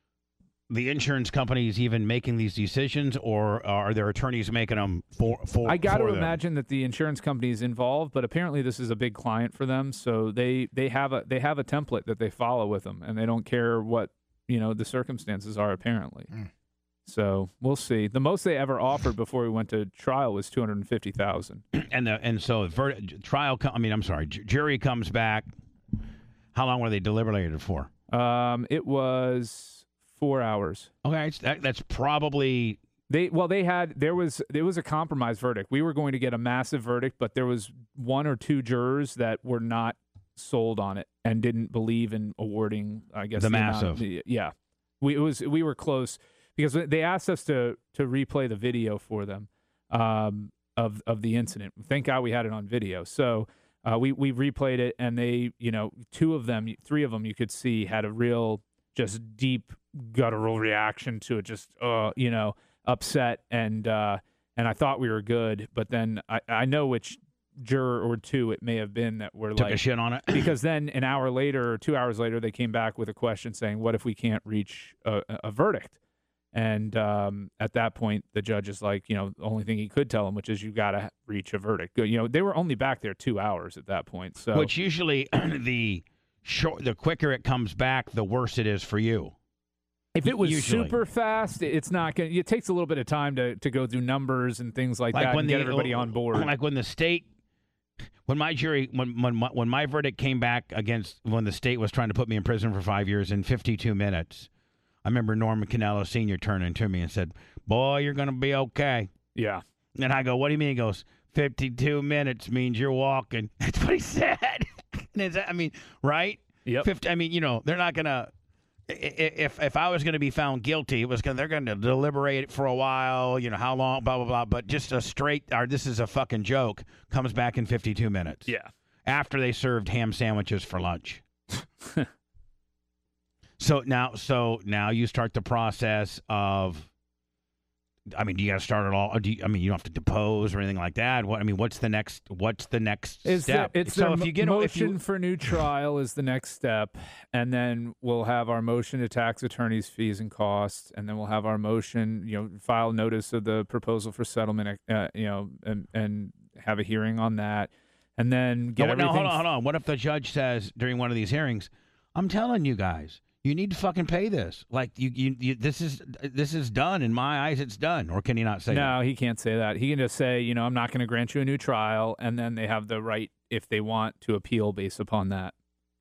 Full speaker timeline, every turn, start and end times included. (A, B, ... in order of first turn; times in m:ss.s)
0:00.7-0:06.4 A
0:05.6-0:16.3 B
0:17.1-0:21.6 B
0:21.7-0:25.5 A
0:26.5-0:27.9 A
0:28.1-0:30.9 B
0:31.0-0:32.8 A
0:33.1-1:16.0 B
0:43.3-0:44.0 A
1:09.6-1:10.5 A
1:16.5-1:24.7 B
1:24.5-1:29.3 A
1:30.1-1:36.5 B
1:30.2-1:31.0 A
1:35.1-1:37.3 A
1:38.2-1:44.5 A
1:45.0-1:49.1 A
1:49.3-1:49.6 B
1:50.0-1:58.3 A
1:58.9-2:08.5 A
2:09.0-2:11.2 A
2:13.6-2:16.9 A
2:18.1-2:25.0 A
2:23.2-2:39.4 B
2:38.8-2:48.9 A
2:48.7-2:55.5 B